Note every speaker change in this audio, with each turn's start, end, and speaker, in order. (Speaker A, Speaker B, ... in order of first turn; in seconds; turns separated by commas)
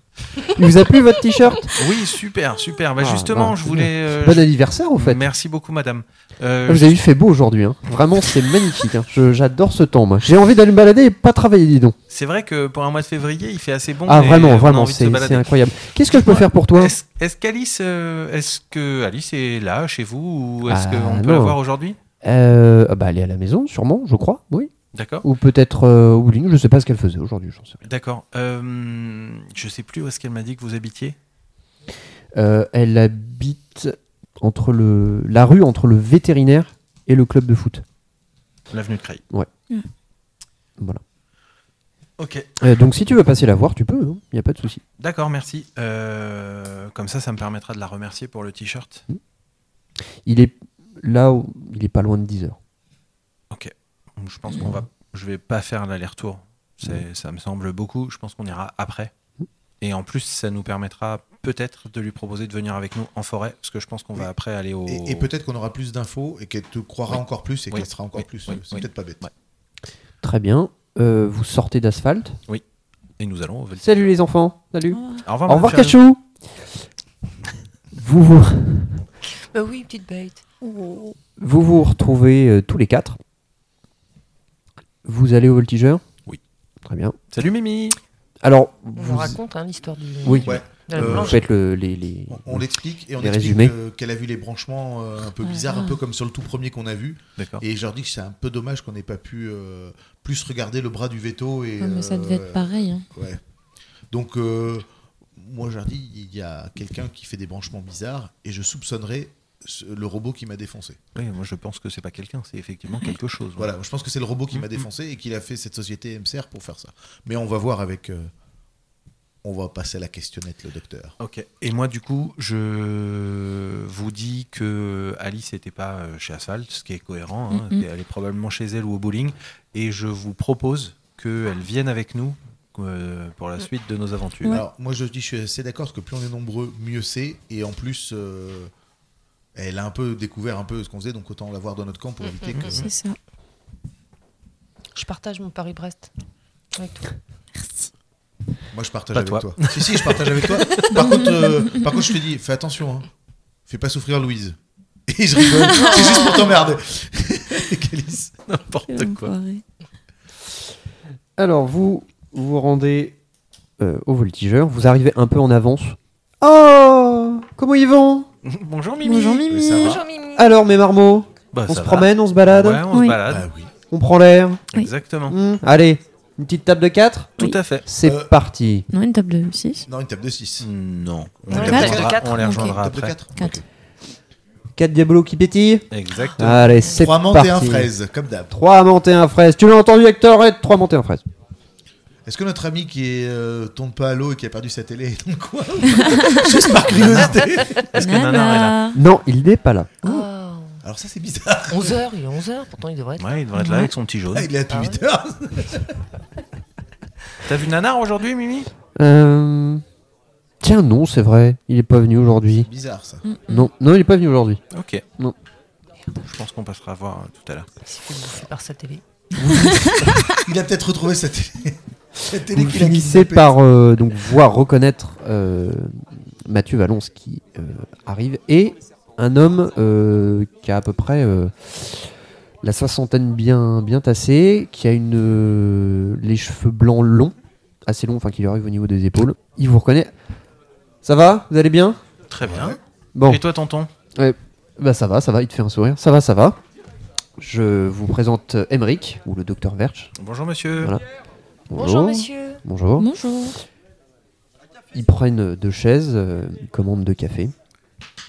Speaker A: 0.6-1.7, Speaker B: 1.7-7.0, Speaker A: 3.0-5.2, Speaker A: 6.7-12.0, Speaker B: 12.1-22.0, Speaker A: 14.1-16.9, Speaker A: 20.7-21.6, Speaker A: 22.2-24.7, Speaker B: 24.9-25.3, Speaker A: 25.2-27.8, Speaker B: 27.8-31.2, Speaker A: 32.4-37.8, Speaker B: 38.7-39.2, Speaker B: 42.2-42.6, Speaker A: 42.6-44.8, Speaker B: 45.0-49.0, Speaker A: 50.2-52.6, Speaker B: 53.5-59.1, Speaker B: 59.8-65.3, Speaker C: 64.9-69.2, Speaker B: 67.7-69.3, Speaker A: 70.2-72.4, Speaker B: 73.2-74.1, Speaker A: 73.8-76.7, Speaker D: 74.9-75.2, Speaker B: 75.3-76.0, Speaker A: 78.0-79.0, Speaker E: 79.5-80.4, Speaker D: 80.6-81.2, Speaker A: 81.4-83.2, Speaker A: 85.0-86.0, Speaker A: 86.8-87.2, Speaker B: 87.3-88.0, Speaker A: 88.4-89.4, Speaker E: 89.0-91.4, Speaker A: 90.2-93.8, Speaker C: 90.5-91.4, Speaker C: 92.3-103.4, Speaker D: 95.5-96.0, Speaker B: 97.4-97.6, Speaker D: 101.8-103.0, Speaker C: 104.1-111.0, Speaker B: 111.2-113.7, Speaker C: 113.6-118.3, Speaker C: 119.4-121.2, Speaker B: 121.2-134.6, Speaker D: 127.5-127.8, Speaker C: 134.4-138.7, Speaker C: 139.6-142.9, Speaker E: 142.3-142.9, Speaker D: 142.7-143.2, Speaker E: 144.9-146.1, Speaker E: 146.8-147.1, Speaker C: 148.7-153.1, Speaker B: 149.2-150.9, Speaker C: 153.7-158.4, Speaker E: 155.7-156.6, Speaker B: 158.5-159.3, Speaker D: 158.9-159.6, Speaker A: 161.4-163.2, Speaker A: 163.8-168.3, Speaker B: 168.4-169.5, Speaker D: 169.0-170.0, Speaker C: 169.5-170.0, Speaker E: 169.7-170.6, Speaker A: 170.3-172.8, Speaker B: 171.5-173.5, Speaker D: 172.9-173.2, Speaker C: 173.3-173.7, Speaker A: 173.9-174.6, Speaker B: 174.7-175.4, Speaker A: 175.3-178.9, Speaker B: 177.4-177.9, Speaker C: 178.0-178.3, Speaker D: 178.9-179.9, Speaker C: 179.9-180.7, Speaker B: 180.6-183.2, Speaker C: 181.5-183.6, Speaker E: 181.5-182.8, Speaker D: 181.6-182.8, Speaker A: 184.8-187.9, Speaker B: 185.9-186.8, Speaker C: 186.9-188.5, Speaker A: 188.5-191.2, Speaker C: 192.3-198.0, Speaker D: 196.2-196.4, Speaker B: 196.9-198.8, Speaker E: 197.1-197.9, Speaker D: 197.9-199.0, Speaker A: 198.9-200.1, Speaker E: 200.0-200.8, Speaker C: 200.8-202.0, Speaker E: 201.7-203.4, Speaker B: 203.2-204.5, Speaker D: 203.6-203.9, Speaker C: 204.3-206.0, Speaker E: 204.7-205.0, Speaker B: 207.4-208.7, Speaker A: 209.0-209.8, Speaker A: 210.6-212.7, Speaker C: 212.6-213.2, Speaker D: 213.2-213.7, Speaker A: 213.5-214.6, Speaker B: 214.7-215.0, Speaker B: 216.2-217.7, Speaker E: 217.9-219.0, Speaker C: 219.4-223.6, Speaker A: 222.4-237.3, Speaker A: 237.9-240.1, Speaker A: 241.0-242.0, Speaker B: 242.3-243.9, Speaker C: 242.4-242.8, Speaker A: 243.2-243.4, Speaker A: 244.2-246.6, Speaker A: 247.4-250.1, Speaker B: 250.2-250.9, Speaker A: 251.7-253.1, Speaker E: 251.8-252.6, Speaker D: 253.0-253.6, Speaker A: 254.9-257.5